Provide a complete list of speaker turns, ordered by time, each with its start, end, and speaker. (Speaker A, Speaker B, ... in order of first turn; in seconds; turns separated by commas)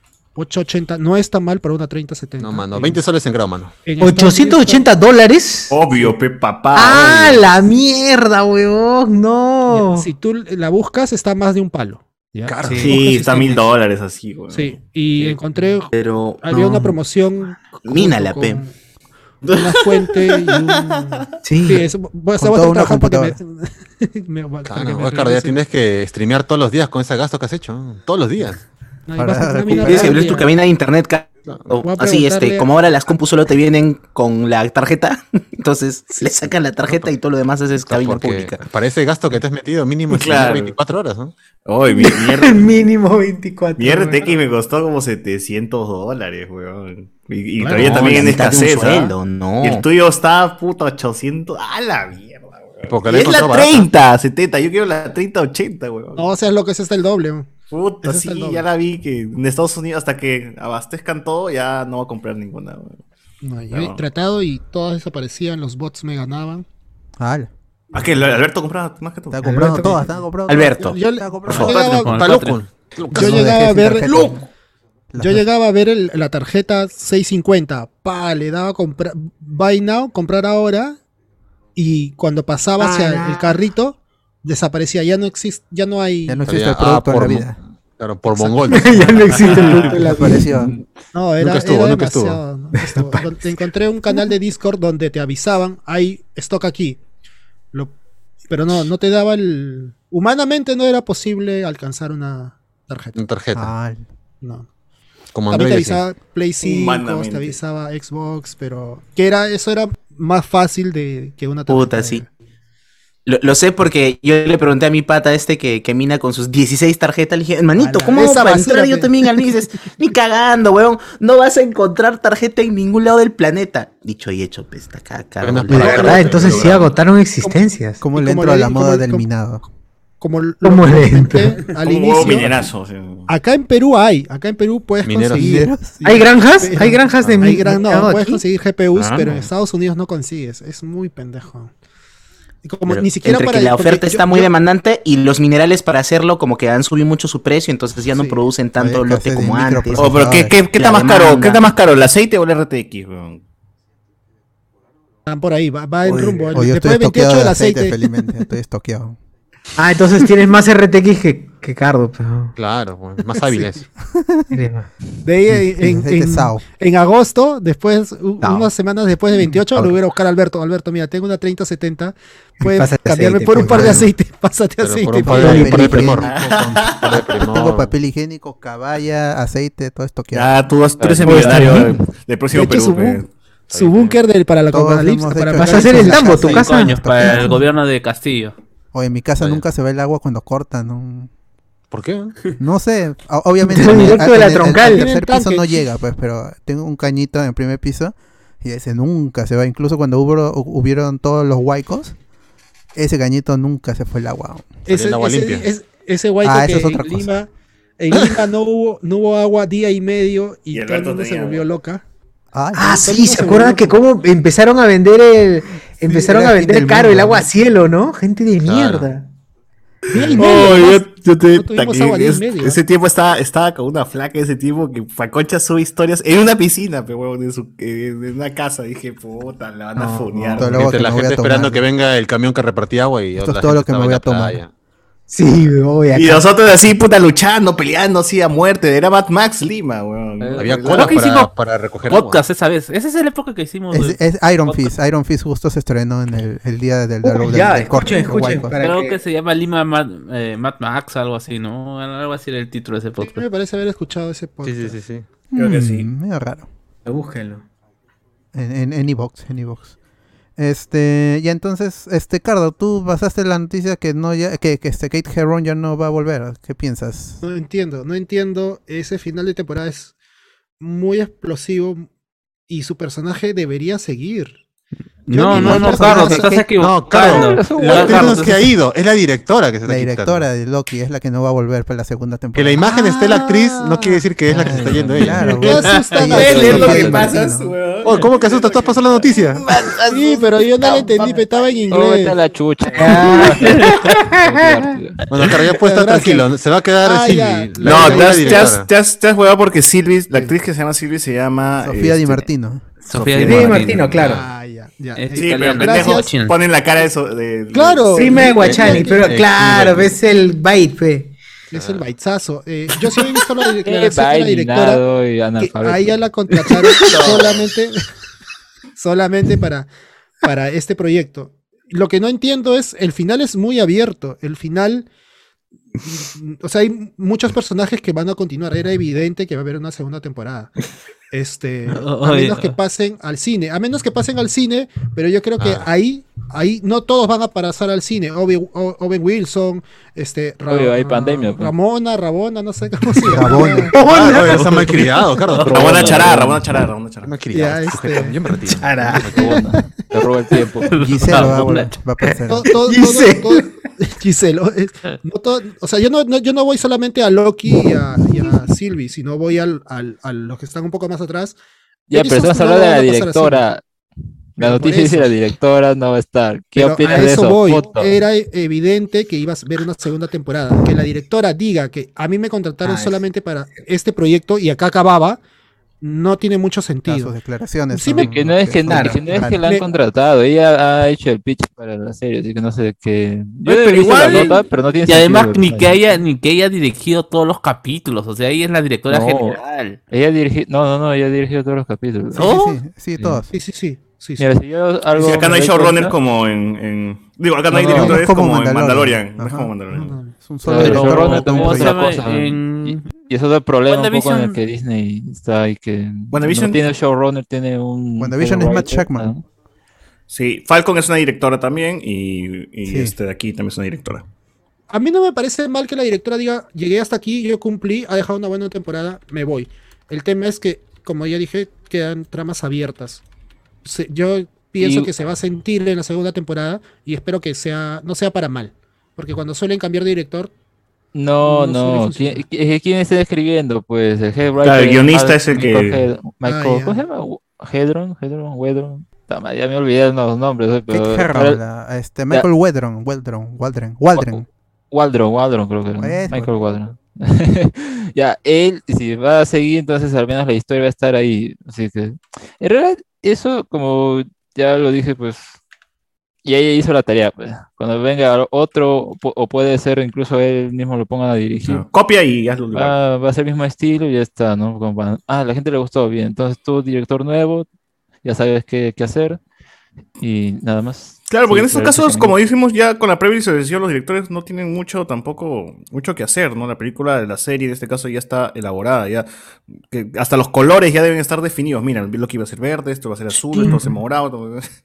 Speaker A: 0.3-3.0, Speaker B: 2.4-3.7, Speaker A: 3.8-4.9, Speaker C: 4.0-5.8, Speaker D: 5.7-7.4, Speaker C: 6.7-10.1, Speaker A: 9.7-13.7, Speaker C: 12.6-13.0, Speaker D: 12.7-15.3, Speaker A: 14.5-18.7, Speaker E: 15.9-16.5, Speaker C: 16.5-17.0, Speaker E: 17.8-18.6, Speaker D: 19.4-21.2, Speaker A: 19.5-25.7, Speaker C: 21.4-21.9, Speaker F: 22.4-23.4, Speaker B: 24.6-28.6, Speaker A: 29.1-30.5, Speaker F: 29.1-30.4, Speaker E: 29.8-38.6, Speaker A: 31.8-32.7, Speaker B: 37.8-41.3, Speaker D: 40.1-40.7, Speaker D: 41.6-42.7, Speaker C: 41.9-44.4, Speaker D: 43.8-56.3, Speaker A: 47.6-48.3, Speaker B: 47.7-48.4, Speaker E: 47.8-49.8, Speaker B: 52.9-53.9, Speaker A: 56.1-58.6, Speaker D: 57.7-63.0, Speaker A: 63.4-66.6, Speaker D: 63.7-64.0, Speaker F: 67.2-67.5, Speaker D: 67.9-69.9, Speaker F: 69.3-71.8, Speaker C: 69.4-70.0, Speaker E: 70.5-71.0, Speaker A: 70.8-72.2, Speaker E: 71.5-71.8, Speaker D: 71.5-72.1, Speaker G: 71.9-72.6, Speaker B: 72.0-73.5, Speaker A: 73.1-74.4, Speaker F: 73.1-74.4, Speaker F: 75.1-75.4, Speaker A: 75.2-81.0, Speaker A: 81.8-86.4, Speaker C: 82.8-83.5, Speaker F: 86.3-87.6, Speaker B: 86.5-90.0, Speaker F: 88.3-90.7, Speaker C: 88.7-90.5, Speaker A: 89.4-90.0, Speaker A: 91.1-97.0, Speaker B: 91.4-92.4, Speaker C: 92.8-93.2, Speaker A: 98.5-103.2, Speaker B: 103.1-103.7, Speaker F: 103.5-104.0, Speaker A: 104.4-104.7, Speaker B: 105.3-106.0, Speaker A: 105.5-112.3, Speaker D: 106.6-107.6, Speaker E: 111.7-112.2, Speaker E: 113.2-126.6, Speaker A: 117.8-119.5, Speaker B: 125.4-126.7, Speaker A: 125.8-126.3, Speaker C: 125.8-128.0, Speaker D: 126.3-126.9, Speaker A: 127.4-129.3, Speaker F: 128.0-129.6, Speaker A: 130.2-132.7, Speaker C: 130.6-131.7, Speaker D: 131.7-133.3, Speaker A: 133.3-141.7, Speaker B: 135.0-135.5, Speaker F: 135.3-136.0, Speaker C: 136.0-138.4, Speaker E: 138.9-139.4, Speaker A: 142.6-144.5, Speaker E: 142.9-150.2, Speaker A: 148.1-148.4, Speaker F: 148.8-150.6, Speaker D: 150.0-153.4, Speaker E: 150.7-151.7, Speaker A: 155.2-158.1, Speaker C: 156.0-156.6, Speaker F: 156.5-159.2, Speaker C: 159.8-162.5, Speaker B: 162.6-163.8, Speaker A: 163.3-163.8, Speaker F: 164.1-164.5, Speaker C: 164.5-164.9, Speaker A: 165.2-175.8, Speaker F: 165.8-166.6, Speaker C: 168.4-168.7, Speaker C: 169.3-169.9, Speaker C: 172.6-174.1, Speaker B: 173.7-174.0, Speaker B: 174.8-176.3, Speaker F: 175.2-180.6, Speaker C: 175.3-176.2, Speaker D: 176.2-177.3, Speaker B: 177.0-177.9, Speaker D: 180.3-183.3, Speaker H: 181.0-181.9, Speaker C: 181.2-181.9, Speaker A: 182.5-186.5, Speaker B: 183.7-184.2, Speaker F: 184.7-187.6, Speaker C: 185.6-187.6, Speaker G: 186.4-188.5, Speaker F: 188.9-191.3, Speaker B: 191.9-192.3, Speaker F: 192.6-202.1, Speaker C: 193.6-195.2, Speaker A: 194.7-195.8, Speaker F: 202.9-204.8, Speaker A: 204.8-212.0, Speaker B: 204.9-205.7, Speaker F: 206.4-207.3, Speaker B: 208.1-208.4, Speaker D: 210.7-211.6, Speaker F: 212.5-213.1, Speaker C: 212.7-219.2, Speaker A: 212.9-214.0, Speaker F: 216.1-217.5, Speaker B: 218.6-219.1, Speaker C: 220.1-220.8, Speaker F: 220.2-220.4, Speaker A: 220.2-222.8, Speaker D: 220.4-231.0, Speaker C: 229.9-230.7, Speaker F: 230.6-231.8, Speaker B: 230.7-234.7, Speaker F: 233.4-234.6, Speaker C: 235.3-236.5, Speaker D: 236.1-241.2, Speaker B: 240.6-242.4, Speaker C: 240.9-241.5, Speaker G: 242.1-244.9, Speaker F: 243.9-248.8, Speaker C: 247.2-249.2, Speaker G: 248.8-253.5, Speaker A: 253.2-255.0, Speaker B: 254.6-255.2, Speaker F: 255.5-256.7, Speaker D: 255.6-256.1, Speaker C: 257.0-257.6, Speaker F: 258.5-259.9, Speaker F: 260.6-267.4, Speaker A: 267.4-270.1, Speaker A: 270.8-272.1, Speaker A: 272.7-274.6, Speaker G: 275.3-278.6, Speaker A: 275.3-276.6, Speaker F: 275.3-276.6, Speaker B: 276.8-280.5, Speaker H: 277.2-278.5, Speaker F: 279.9-282.9, Speaker B: 282.5-285.8, Speaker A: 283.0-284.2, Speaker F: 284.5-287.7, Speaker H: 284.6-285.2, Speaker A: 285.5-287.4, Speaker D: 286.1-291.5, Speaker B: 286.7-287.2, Speaker B: 288.0-289.6, Speaker A: 290.1-292.4, Speaker H: 291.9-295.2, Speaker C: 292.9-294.9, Speaker B: 295.3-298.9, Speaker A: 295.6-296.5, Speaker A: 297.0-298.8, Speaker D: 297.8-302.4, Speaker F: 301.8-302.8, Speaker G: 303.0-304.1, Speaker D: 303.2-303.7, Speaker C: 303.4-304.5, Speaker B: 304.1-304.4, Speaker A: 304.1-306.3, Speaker G: 305.1-306.6, Speaker D: 305.3-308.6, Speaker A: 307.7-309.4, Speaker C: 308.1-311.3, Speaker B: 308.5-310.2, Speaker A: 311.7-315.0, Speaker B: 311.7-312.0, Speaker C: 312.9-313.7, Speaker H: 313.8-316.2, Speaker A: 315.6-318.0, Speaker C: 316.8-317.2, Speaker D: 317.0-317.5, Speaker A: 318.9-319.9, Speaker A: 320.4-325.1, Speaker A: 326.0-330.7, Speaker A: 331.3-344.0, Speaker G: 331.9-332.8, Speaker B: 335.6-335.9, Speaker H: 340.7-341.7, Speaker F: 343.3-343.9, Speaker C: 343.9-344.8, Speaker D: 344.0-345.0, Speaker B: 344.0-346.4, Speaker D: 345.6-347.4, Speaker H: 345.6-346.6, Speaker B: 347.2-349.6, Speaker A: 347.5-348.7, Speaker C: 348.8-349.6, Speaker H: 349.2-350.9, Speaker A: 349.4-349.6, Speaker G: 350.9-351.9, Speaker F: 350.9-352.8, Speaker C: 352.4-353.7, Speaker A: 352.5-361.6, Speaker C: 357.7-358.6, Speaker H: 362.1-363.8, Speaker A: 362.1-363.7, Speaker H: 364.6-368.2, Speaker A: 364.6-365.3, Speaker A: 366.7-375.4, Speaker C: 372.8-373.2, Speaker A: 376.0-377.4, Speaker F: 377.1-379.6, Speaker A: 377.9-378.3, Speaker H: 378.1-386.0, Speaker C: 378.9-379.2, Speaker A: 379.5-379.9, Speaker G: 383.6-390.0, Speaker D: 384.2-384.5, Speaker H: 389.1-392.5, Speaker F: 392.3-393.5, Speaker A: 393.5-394.5, Speaker H: 394.4-396.1, Speaker D: 395.1-400.2, Speaker H: 397.7-398.2, Speaker F: 397.9-399.7, Speaker A: 399.9-400.3, Speaker F: 400.4-402.2, Speaker H: 400.6-409.4, Speaker G: 400.7-403.1, Speaker G: 403.9-404.6, Speaker D: 406.3-406.8, Speaker F: 408.2-409.3, Speaker D: 410.3-414.2, Speaker F: 412.8-413.1, Speaker A: 414.9-423.2, Speaker A: 423.8-430.5, Speaker H: 424.8-425.1, Speaker H: 431.1-441.6, Speaker A: 431.4-432.4, Speaker D: 434.6-436.0, Speaker A: 436.4-437.0, Speaker F: 440.9-444.4, Speaker H: 444.1-455.6, Speaker F: 446.0-446.5, Speaker H: 456.4-461.8, Speaker D: 461.6-462.9, Speaker H: 462.7-467.7, Speaker H: 468.2-469.4, Speaker H: 470.2-472.3, Speaker D: 471.3-479.3, Speaker D: 479.9-484.7, Speaker C: 483.5-483.9